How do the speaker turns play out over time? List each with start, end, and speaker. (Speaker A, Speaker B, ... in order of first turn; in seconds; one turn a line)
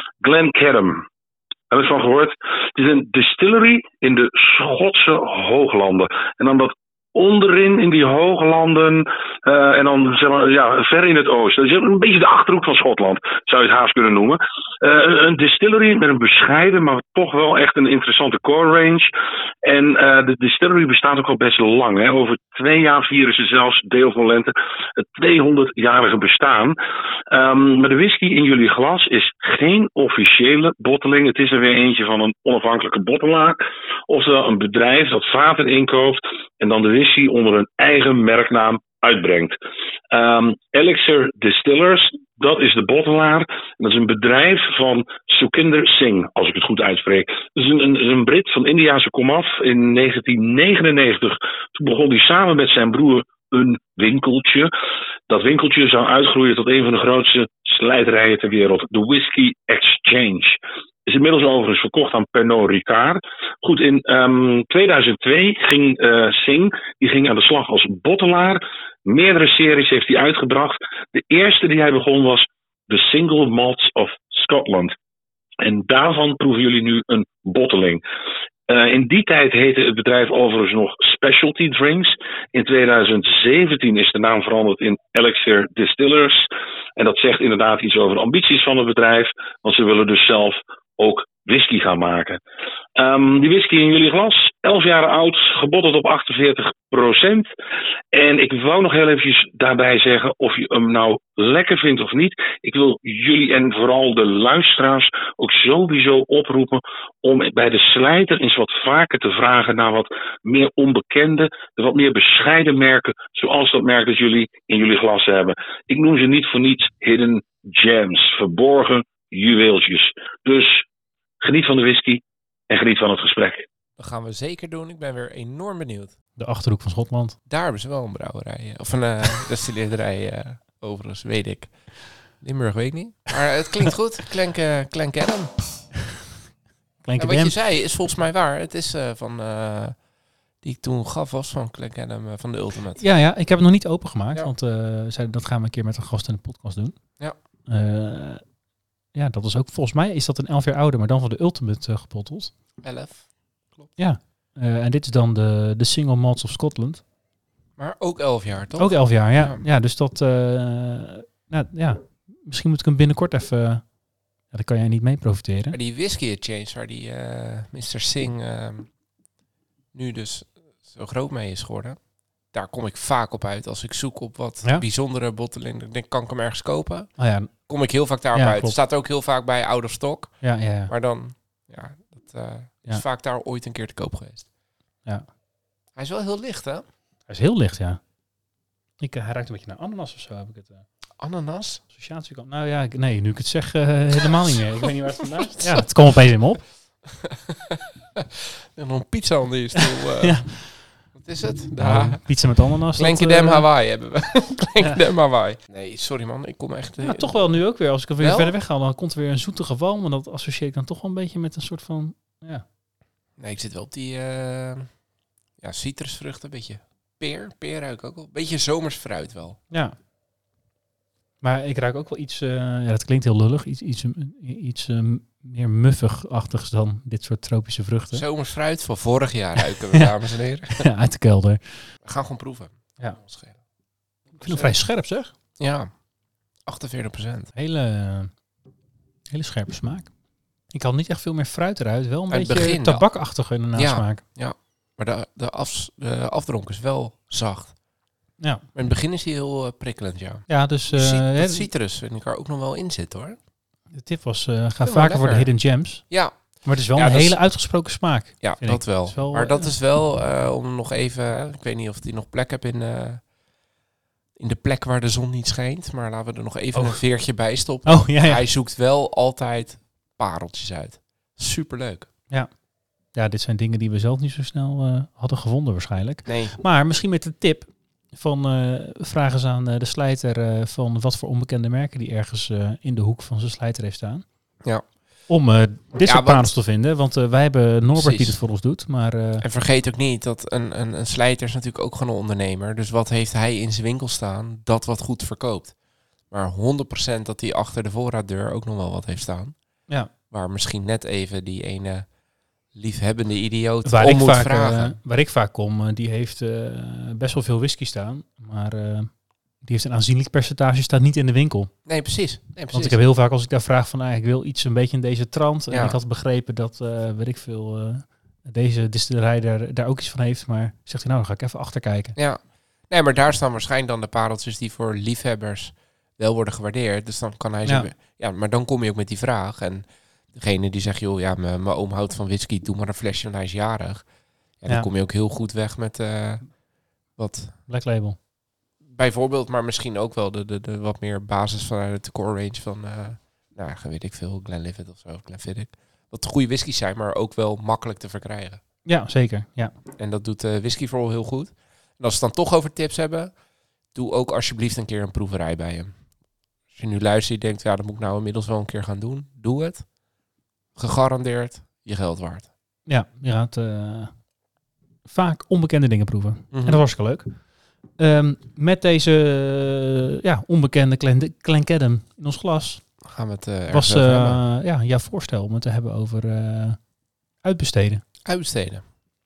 Speaker A: 0.2-1.0
Speaker A: 1.7-19.1
Speaker A: 19.6-26.8
Speaker A: 27.3-33.6
Speaker A: 34.1-39.5
Speaker A: 40.1-54.7
Speaker A: 55.3-74.9
Speaker A: 75.6-78.0
Speaker A: 78.7-86.5
Speaker A: 87.0-92.4
Speaker A: 93.0-97.5
Speaker A: 98.1-120.8
Speaker A: 121.4-123.7
Speaker B: 124.0-126.1
Speaker C: 126.4-127.4
Speaker B: 127.5-131.7
Speaker B: 132.4-135.5
Speaker C: 137.0-137.5
Speaker B: 137.2-140.0
Speaker B: 140.6-143.0
Speaker C: 143.0-147.1
Speaker C: 147.7-148.4
Speaker C: 149.1-152.5
Speaker B: 152.8-153.9
Speaker C: 154.0-157.0
Speaker B: 157.8-159.6
Speaker C: 158.8-163.9
Speaker C: 164.5-165.8
Speaker B: 165.7-168.9
Speaker B: 169.9-177.1
Speaker C: 177.2-177.5
Speaker B: 177.7-184.5
Speaker C: 178.3-178.8
Speaker C: 180.4-180.9
Speaker B: 185.9-186.8
Speaker C: 187.3-188.0
Speaker C: 189.0-190.8
Speaker B: 191.2-191.8
Speaker C: 191.9-196.6
Speaker B: 194.5-195.9
Speaker B: 197.1-200.5
Speaker C: 199.8-200.8
Speaker B: 201.1-202.2
Speaker C: 201.8-203.7
Speaker B: 203.0-207.3
Speaker C: 207.0-212.6
Speaker B: 208.2-208.5
Speaker B: 213.4-214.9
Speaker B: 215.6-219.6
Speaker C: 219.7-219.9
Speaker C: 221.4-228.2
Speaker B: 228.1-230.9
Speaker C: 229.7-230.2
Speaker C: 230.7-231.9
Speaker B: 232.0-233.6
Speaker C: 234.4-235.3
Speaker B: 234.4-234.7
Speaker B: 235.6-235.9
Speaker B: 236.6-237.5
Speaker C: 237.5-238.3
Speaker C: 239.3-240.1
Speaker C: 240.7-244.2
Speaker B: 242.3-243.1
Speaker B: 243.7-247.7
Speaker C: 248.4-248.6
Speaker B: 248.7-253.4
Speaker C: 250.5-251.7
Speaker C: 253.9-259.7
Speaker B: 254.8-255.5
Speaker B: 256.0-257.4
Speaker B: 258.4-263.2
Speaker B: 264.4-272.1
Speaker C: 267.9-268.4
Speaker C: 273.1-284.2
Speaker B: 276.2-276.5
Speaker C: 285.3-289.4
Speaker B: 286.0-286.5
Speaker B: 287.9-288.4
Speaker B: 289.4-295.8
Speaker B: 296.3-299.5
Speaker B: 300.3-302.1
Speaker B: 302.7-304.9
Speaker C: 303.8-311.7
Speaker B: 311.9-313.0
Speaker C: 312.7-322.2
Speaker B: 315.7-316.0
Speaker B: 322.1-334.1
Speaker B: 334.6-336.5
Speaker B: 337.2-337.5
Speaker C: 337.7-338.2
Speaker B: 338.9-348.6
Speaker C: 348.8-349.7
Speaker B: 350.0-353.3
Speaker B: 353.9-356.0
Speaker B: 356.7-359.9
Speaker B: 360.8-362.5
Speaker C: 362.9-364.1
Speaker C: 365.1-373.0
Speaker B: 366.5-366.8
Speaker B: 373.0-374.4
Speaker C: 373.7-376.9
Speaker C: 377.4-378.0
Speaker B: 378.2-378.9